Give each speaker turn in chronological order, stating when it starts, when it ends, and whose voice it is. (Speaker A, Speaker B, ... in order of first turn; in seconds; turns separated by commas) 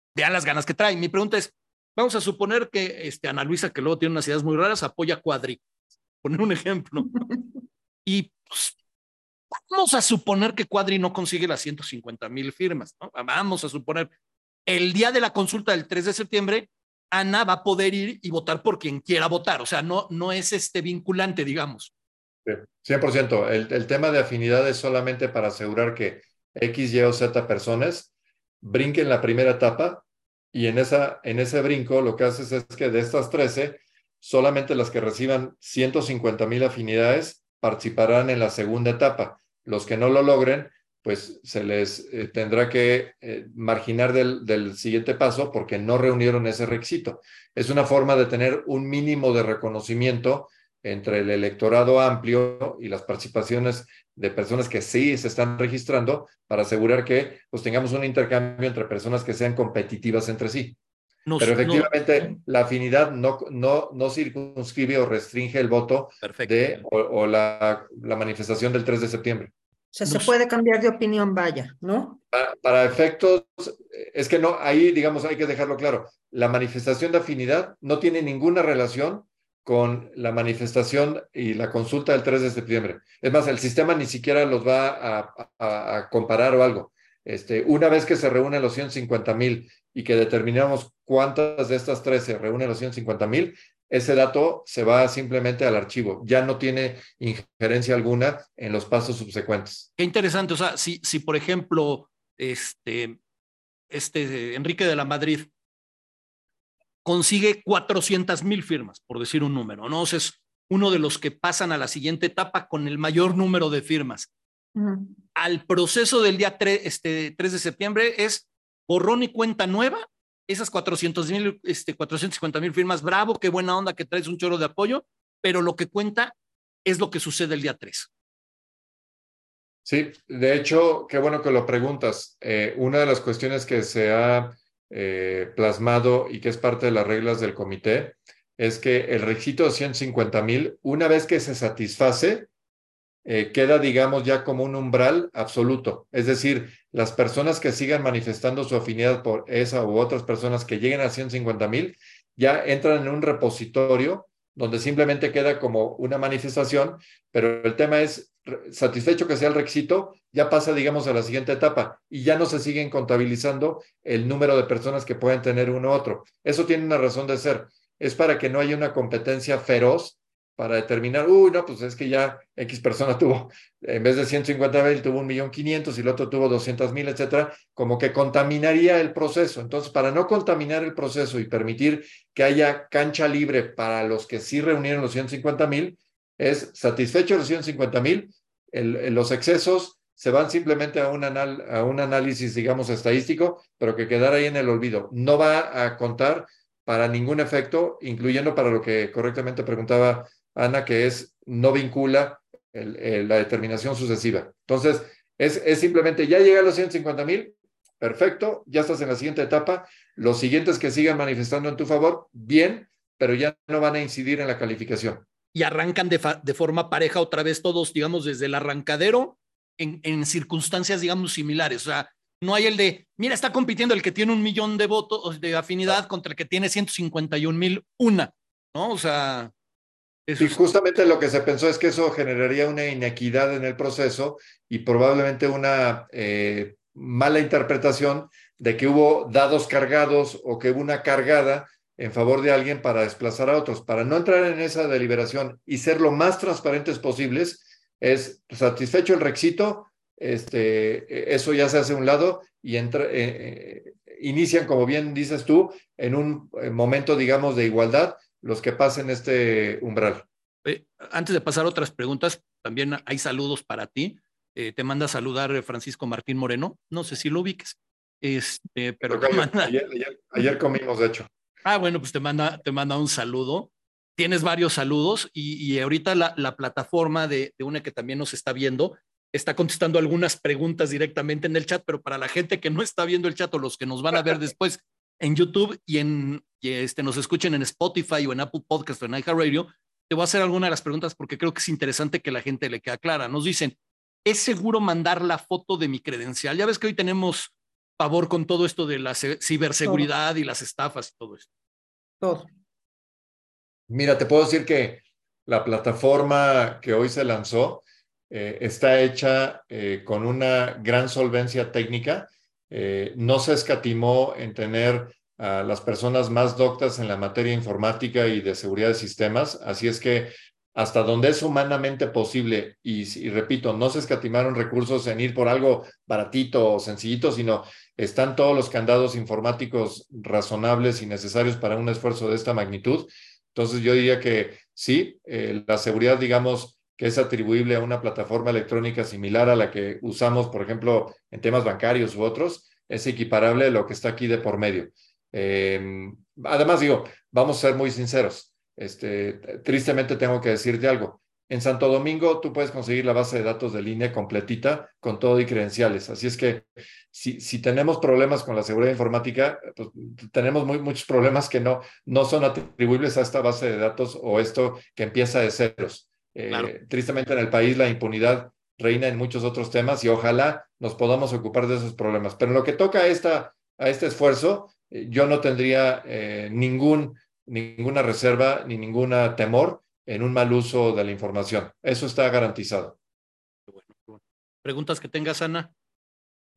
Speaker A: 0.1-5.6, Speaker A: 6.2-7.3, Speaker A: 8.0-8.8, Speaker A: 9.7-14.1, Speaker A: 14.7-21.9, Speaker B: 22.4-60.8, Speaker A: 61.2-62.3, Speaker B: 61.4-69.5, Speaker A: 66.2-66.8, Speaker C: 69.9-72.2, Speaker A: 70.0-70.3, Speaker B: 72.3-99.9, Speaker A: 100.0-103.2, Speaker A: 103.9-105.5, Speaker A: 107.0-114.3, Speaker C: 114.7-115.2, Speaker A: 115.3-126.3, Speaker A: 126.8-128.1, Speaker B: 129.8-142.5, Speaker B: 143.2-215.2, Speaker A: 215.5-229.5, Speaker A: 230.3-230.6, Speaker B: 230.4-260.2, Speaker A: 260.6-269.7, Speaker B: 269.0-271.3, Speaker A: 271.6-301.5, Speaker C: 302.2-302.5, Speaker B: 303.9-383.0, Speaker A: 383.7-385.7